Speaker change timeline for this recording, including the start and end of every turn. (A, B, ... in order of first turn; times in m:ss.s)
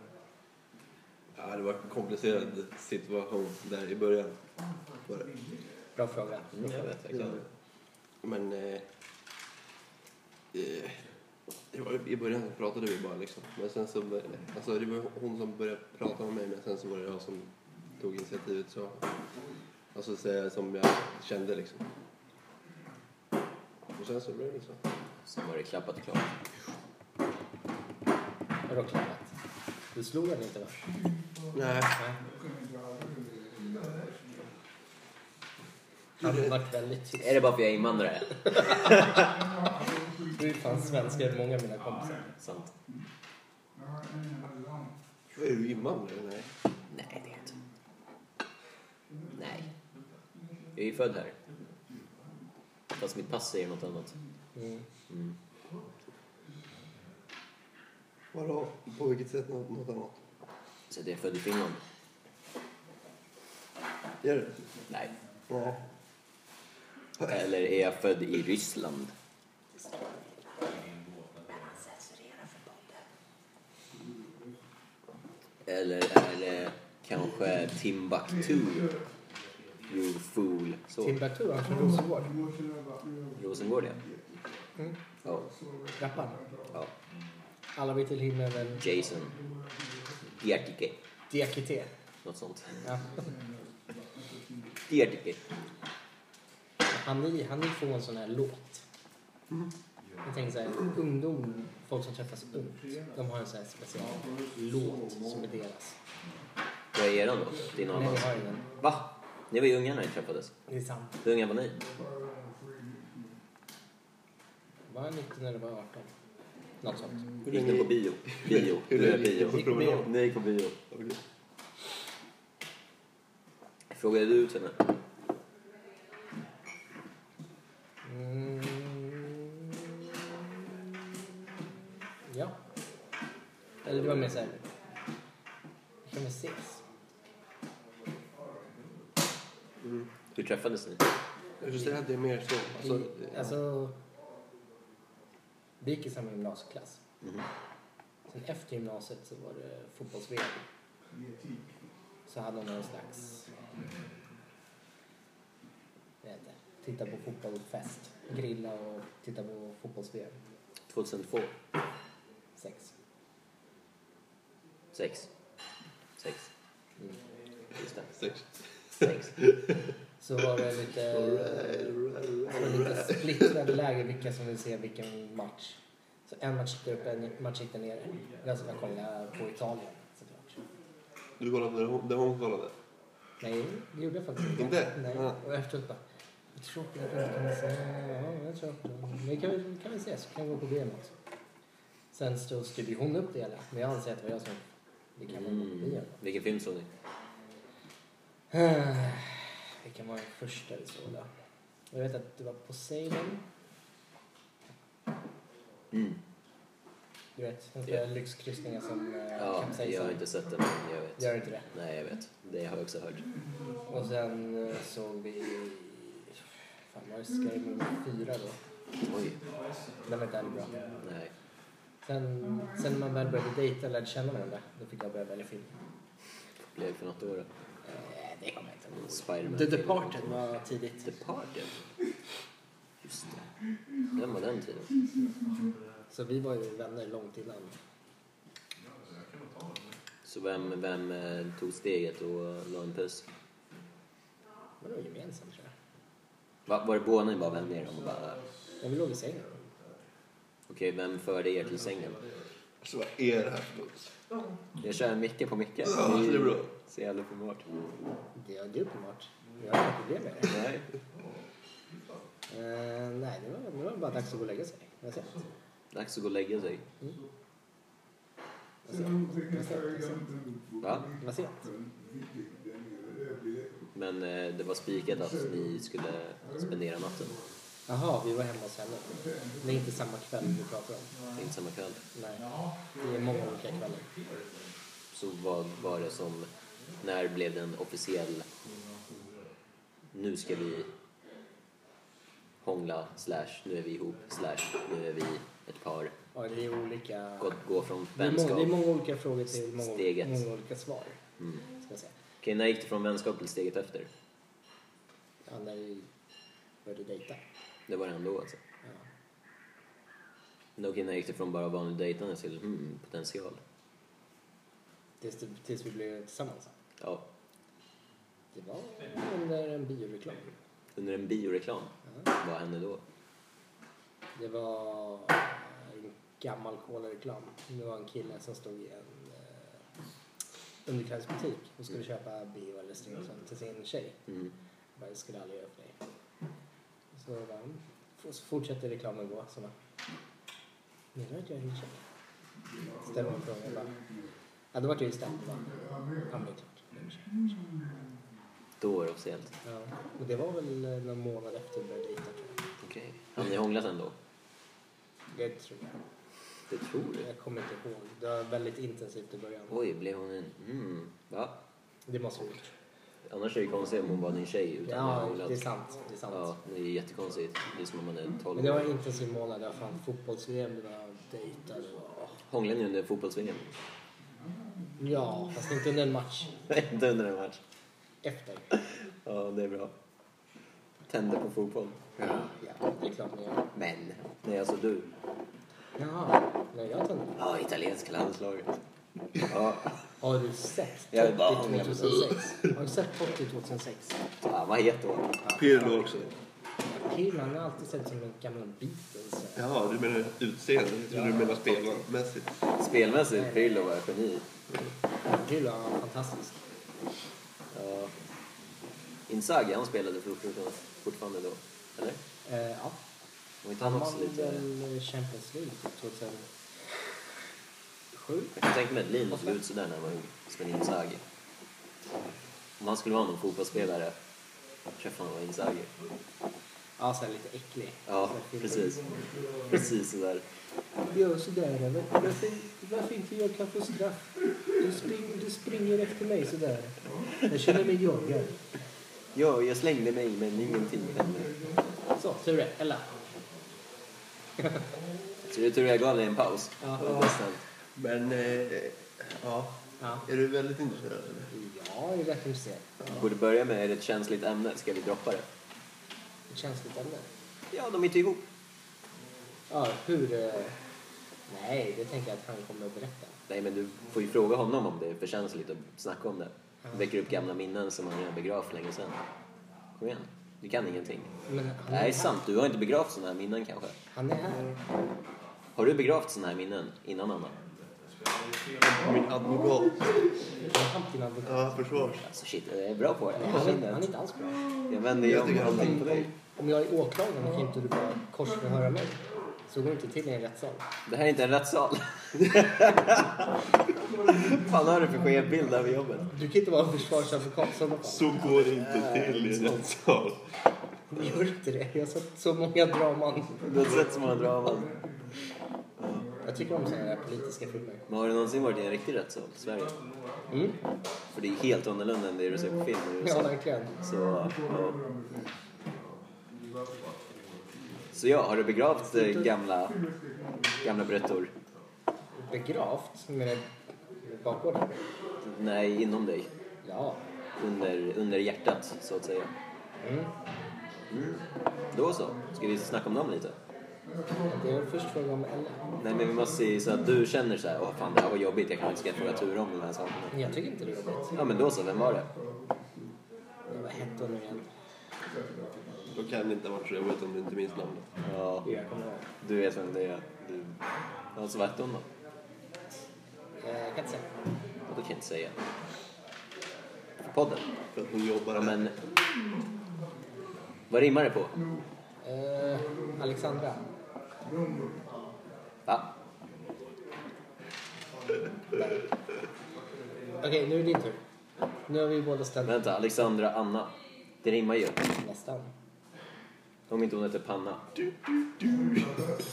0:01.3-0:04.4 A
0:05.1-0:05.3 A
0:06.0-0:06.9 B
0:06.5-0:07.4 C
0:08.2-0:08.8 A
0:10.5-0:11.0 A
0:11.7-0:19.0 A
0:19.9-0:21.8 A
0:23.9-0:24.8 A
0:25.3-0:26.4 C
0:28.7-0:29.3 B
0:29.9-0:30.9 B
0:31.5-0:31.9 A
0:36.2-0:37.4 B
0:36.2-0:36.5 A
0:37.2-0:39.3 C
0:40.3-0:42.2 B
0:42.4-0:42.7 C
0:45.3-0:46.5 A
0:46.9-0:47.5 C
0:49.3-0:49.7 C
0:50.7-0:51.4 C
0:52.9-0:54.2 C
0:54.6-0:54.8 B
0:58.3-1:00.1 A
1:00.9-1:01.8 C
1:04.2-1:04.6 A
1:05.5-1:05.8 A
1:07.3-1:09.1 C
1:11.8-1:12.6 B
1:15.6-1:18.9 C
1:19.9-1:21.2 C
1:21.0-1:22.4 B
1:23.3-1:24.0 C
1:26.0-1:26.4 B
1:27.8-1:28.8 B
1:28.8-1:29.4 C
1:30.4-1:31.0 C
1:31.3-1:31.9 B
1:32.2-1:32.8 C
1:34.9-1:35.4 C
1:36.9-1:38.8 B
1:40.2-1:46.0 B
1:46.9-1:50.5 C
1:48.0-1:48.6 B
1:50.7-1:51.2 B
1:51.2-1:51.8 C
1:54.9-1:56.1 B
1:56.8-1:57.3 B
1:57.4-2:00.1 A
1:57.5-2:00.7 C
1:59.5-2:00.1 B
2:00.9-2:01.2 A
2:03.9-2:04.8 C
2:08.0-2:10.1 B
2:12.3-2:12.5 B
2:13.8-2:14.6 B
2:13.8-2:14.5 C
2:16.0-2:16.8 B
2:19.8-2:20.1 A
2:20.3-2:21.0 C
2:21.6-2:23.5 A
2:22.8-2:23.9 B
2:25.8-2:27.0 B
2:28.3-2:30.6 B
2:32.3-2:33.5 B
2:36.2-2:40.4 B
2:40.9-2:41.5 C
2:42.6-2:42.9 B
2:44.9-2:45.3 C
2:46.2-2:46.5 C
2:47.8-2:48.1 C
2:48.2-2:48.4 A
2:49.0-2:49.4 C
2:49.0-2:49.7 A
2:50.2-2:51.7 B
2:51.1-2:53.5 A
2:52.5-3:00.6 B
3:01.4-3:02.7 A
3:03.4-3:06.0 B
3:04.5-3:05.4 A
3:06.6-3:11.1 B
3:12.1-3:14.6 B
3:15.2-3:16.2 B
3:15.3-3:16.9 C
3:18.5-3:21.3 B
3:21.9-3:23.4 B
3:25.9-3:26.2 C
3:27.4-3:30.2 B
3:29.4-3:33.2 C
3:31.2-3:31.7 B
3:33.9-3:38.6 B
3:39.0-3:39.4 C
3:40.0-3:40.8 B
3:41.0-3:41.3 C
3:42.0-3:45.7 B
3:46.7-3:47.5 C
3:47.8-3:51.1 B
3:49.0-3:50.2 C
3:51.0-3:51.7 C
3:53.0-3:53.4 C
3:54.1-3:54.9 C
3:56.1-3:57.8 B
4:00.2-4:03.3 C
4:04.8-4:05.7 B
4:06.6-4:08.4 C
4:08.8-4:09.5 B
4:10.7-4:12.2 C
4:12.8-4:14.1 A
4:14.8-4:17.7 C
4:15.8-4:16.7 A
4:18.3-4:20.6 B
4:20.4-4:20.8 C
4:22.5-4:25.5 B
4:25.9-4:26.8 C
4:28.8-4:30.4 B
4:30.8-4:31.1 C
4:31.2-4:31.6 B
4:33.9-4:37.4 C
4:37.9-4:41.1 B
4:41.3-4:42.0 C
4:42.1-4:44.1 B
4:45.1-4:46.5 C
4:47.0-4:48.5 C
4:50.1-4:50.9 C
4:52.6-4:56.1 C
4:56.3-4:57.6 B
4:57.4-4:58.8 C
4:58.2-5:01.2 B
4:59.8-5:00.4 C
5:01.8-5:02.1 B
5:02.4-5:04.1 C
5:05.4-5:06.1 B
5:06.8-5:07.4 B
5:07.9-5:08.6 C
5:10.8-5:13.6 C
5:15.2-5:16.7 B
5:18.5-5:20.5 B
5:21.0-5:23.0 C
5:24.4-5:29.7 B
5:30.8-5:34.2 B
5:35.0-5:36.0 B
5:37.1-5:39.7 B
5:41.1-5:42.0 B
5:43.0-5:44.0 B
5:44.7-5:47.5 B
5:48.8-5:49.5 C
5:49.6-5:52.6 B
5:52.8-5:54.1 C
5:55.3-5:55.9 B
5:56.7-5:57.3 C
5:57.2-5:59.8 B
5:59.7-6:01.6 C
6:02.1-6:02.7 B
6:03.3-6:05.6 C
6:04.8-6:06.5 B
6:06.3-6:08.9 C
6:08.6-6:12.4 B
6:12.5-6:13.6 C
6:15.0-6:16.6 B
6:16.7-6:17.6 C
6:18.2-6:18.7 B
6:18.7-6:19.9 C
6:21.1-6:22.5 C
6:22.6-6:23.7 B
6:23.7-6:25.1 C
6:26.0-6:27.3 B
6:27.4-6:28.8 C
6:29.4-6:30.0 C
6:30.2-6:34.2 B
6:31.1-6:32.4 C
6:34.4-6:35.3 C
6:35.4-6:36.2 B
6:35.6-6:36.3 A
6:36.9-6:39.6 B
6:39.6-6:42.5 A
6:41.2-6:41.9 C
6:42.8-6:44.4 C
6:43.3-6:43.6 B
6:45.2-6:46.6 B
6:47.7-6:48.1 C
6:49.3-6:52.2 C
6:52.4-6:53.0 B
6:53.6-6:54.6 C
6:53.8-6:56.5 B
6:58.1-6:58.6 B
6:58.6-7:01.2 C
7:02.8-7:04.1 C
7:05.0-7:05.9 C
7:07.0-7:09.0 B
7:08.1-7:09.0 C
7:09.7-7:10.4 C
7:11.1-7:18.6 B
7:19.3-7:21.7 C
7:22.2-7:23.1 B
7:25.4-7:27.6 C
7:26.8-7:27.3 B
7:28.0-7:31.5 A
7:31.5-7:32.8 B
7:33.1-7:35.5 C
7:36.5-7:37.3 B
7:37.7-7:38.4 C
7:39.7-7:40.8 B
7:41.5-7:43.4 B
7:43.5-7:49.2 C
7:50.0-7:51.3 C
7:51.5-7:52.3 B
7:51.9-7:54.0 C
7:54.1-7:54.7 B
7:55.7-7:57.6 C
7:58.8-8:00.1 A
8:00.7-8:01.8 B
8:01.5-8:02.2 A
8:02.2-8:04.1 C
8:03.4-8:04.6 B
8:04.9-8:06.3 C
8:05.2-8:06.1 A
8:05.7-8:10.8 B
8:11.1-8:16.3 C
8:16.3-8:18.4 B
8:18.0-8:20.4 A
8:19.0-8:19.3 C
8:19.4-8:19.7 B
8:21.1-8:23.6 B
8:23.6-8:25.0 C
8:26.4-8:28.0 B
8:28.1-8:30.0 C
8:30.5-8:30.8 B
8:31.3-8:35.0 C
8:33.2-8:33.9 B
8:38.1-8:40.0 C
8:39.1-8:39.4 B
8:40.8-8:41.5 C
8:42.3-8:43.7 B
8:44.2-8:45.0 B
8:45.4-8:46.5 C
8:46.8-8:47.2 B
8:47.6-8:49.5 C
8:50.0-8:50.3 B
8:51.1-8:53.6 C
8:54.5-8:55.9 B
8:56.0-9:00.5 C
9:00.3-9:01.4 B
9:01.3-9:02.3 C
9:03.7-9:04.7 B
9:06.1-9:08.1 A
9:08.2-9:08.7 C
9:08.6-9:09.2 B
9:09.4-9:10.8 C
9:11.3-9:12.1 C
9:13.6-9:14.3 B
9:14.9-9:15.6 C
9:17.3-9:17.7 C
9:17.9-9:18.8 A
9:18.6-9:19.0 C
9:20.9-9:21.6 C
9:22.2-9:23.9 B
9:25.8-9:26.1 C
9:28.7-9:29.0 B
9:30.4-9:31.2 B
9:31.9-9:32.8 B
9:32.6-9:35.1 C
9:35.2-9:35.7 B
9:36.9-9:38.0 C
9:38.6-9:39.1 A